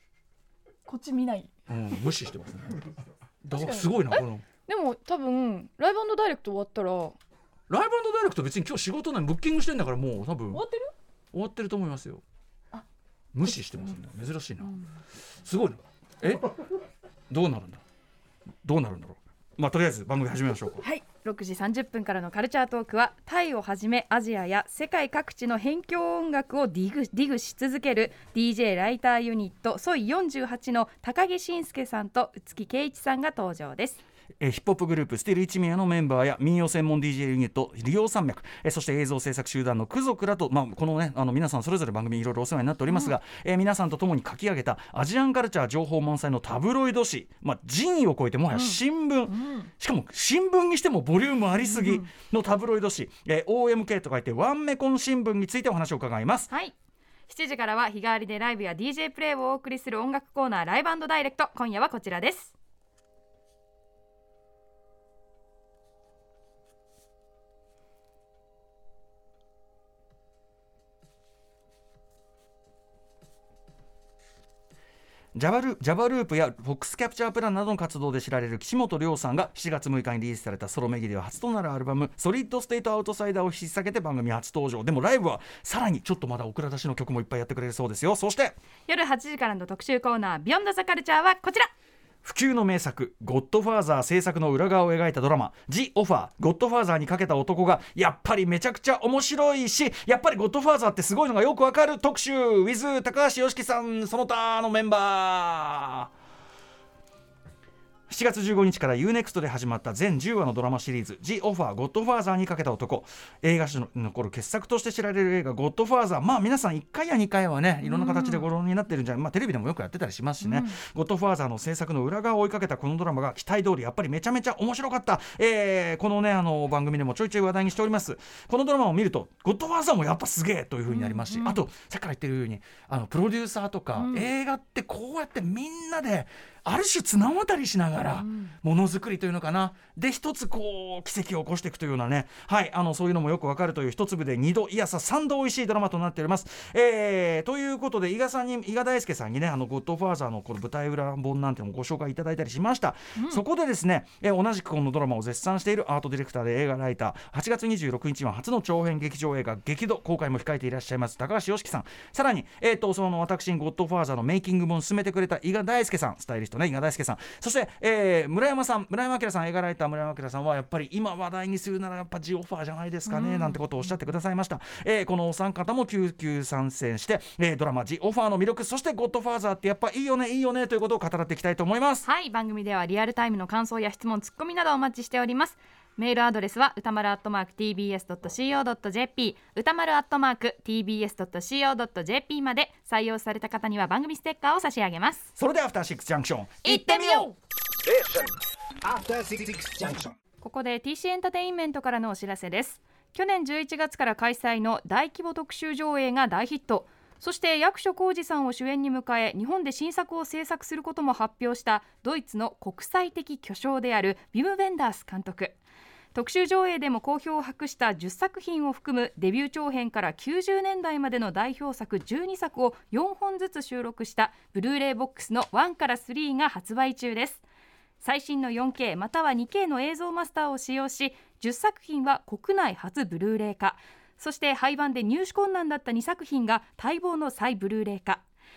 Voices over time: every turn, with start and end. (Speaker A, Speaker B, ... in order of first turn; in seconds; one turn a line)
Speaker A: 0.9-1.5
Speaker B: 1.7-4.5
Speaker A: 3.5-7.2
Speaker B: 7.7-10.6
Speaker A: 10.5-10.9
Speaker B: 11.3-12.2
Speaker B: 13.3-14.7
Speaker B: 15.4-16.6
Speaker B: 17.3-17.8
Speaker B: 18.6-20.8
Speaker A: 20.8-34.0
Speaker B: 34.4-56.5
Speaker A: 48.5-49.7
Speaker A: 51.6-52.1
Speaker A: 57.3-62.5
Speaker B: 75.3-88.6
Speaker A: 88.9-91.7
Speaker B: 92.2-106.1
Speaker B: 108.1-182.1
Speaker A: 117.8-118.5
Speaker A: 120.4-120.8
Speaker A: 130.9-131.6
Speaker A: 134.0-134.3
Speaker A: 138.2-138.6
Speaker A: 153.2-153.4
Speaker A: 173.1-173.6
Speaker A: 182.0-195.3
Speaker B: 195.4-197.3
Speaker A: 196.6-197.3
Speaker C: 197.8-200.2
Speaker A: 200.4-215.6
Speaker A: 216.1-227.4
Speaker A: 228.0-238.2